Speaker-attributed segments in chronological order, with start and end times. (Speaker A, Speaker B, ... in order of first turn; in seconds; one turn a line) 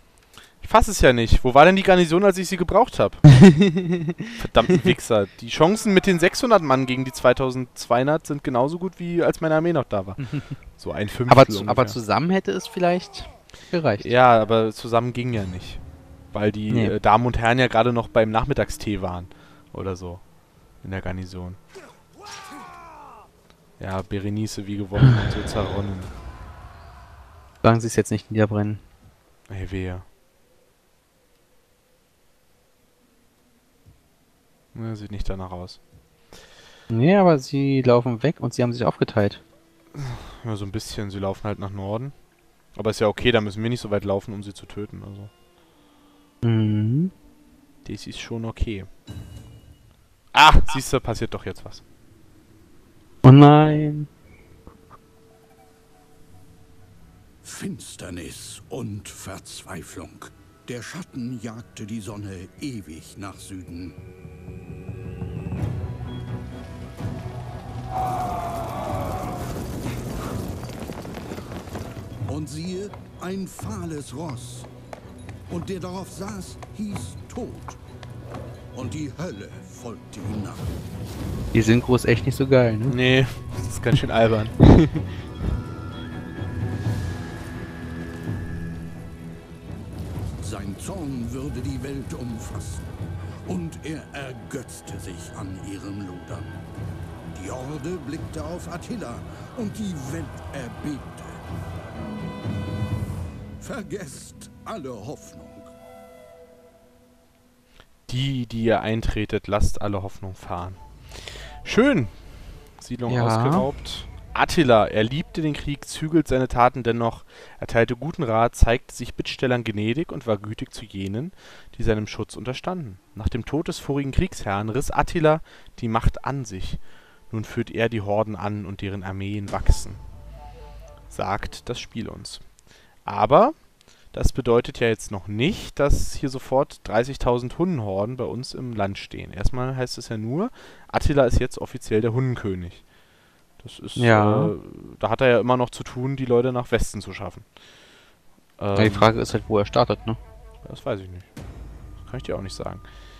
Speaker A: 0.6-3.2
Speaker B: 3.3-4.9
Speaker A: 4.4-12.0
Speaker B: 10.2-10.5
Speaker B: 11.3-14.1
Speaker A: 14.0-20.2
Speaker B: 16.7-16.9
Speaker A: 20.8-21.6
Speaker A: 23.8-26.1
Speaker B: 27.6-28.8
Speaker A: 29.5-30.1
Speaker A: 34.7-35.8
Speaker B: 36.9-39.4
Speaker A: 39.9-42.1
Speaker A: 42.7-45.3
Speaker B: 46.4-47.1
Speaker A: 47.8-48.9
Speaker A: 50.3-51.8
Speaker B: 53.2-54.1
Speaker C: 57.4-64.0
Speaker C: 72.2-74.7
Speaker C: 75.5-77.8
Speaker C: 78.7-80.7
Speaker B: 81.5-83.0
Speaker A: 82.9-84.5
Speaker B: 84.6-85.1
Speaker C: 90.4-92.8
Speaker C: 93.5-96.5
Speaker C: 97.3-101.4
Speaker C: 103.6-105.7
Speaker A: 108.1-112.2
Speaker A: 112.8-130.0
Speaker B: 113.1-113.7
Speaker A: 131.1-132.4
Speaker A: 133.0-133.6
Speaker A: 134.1-142.8
Speaker A: 143.6-147.4
Speaker B: 144.0-144.5
Speaker A: 148.6-149.1
Speaker B: 148.7-150.2
Speaker A: 150.6-151.3
Speaker A: 152.0-152.8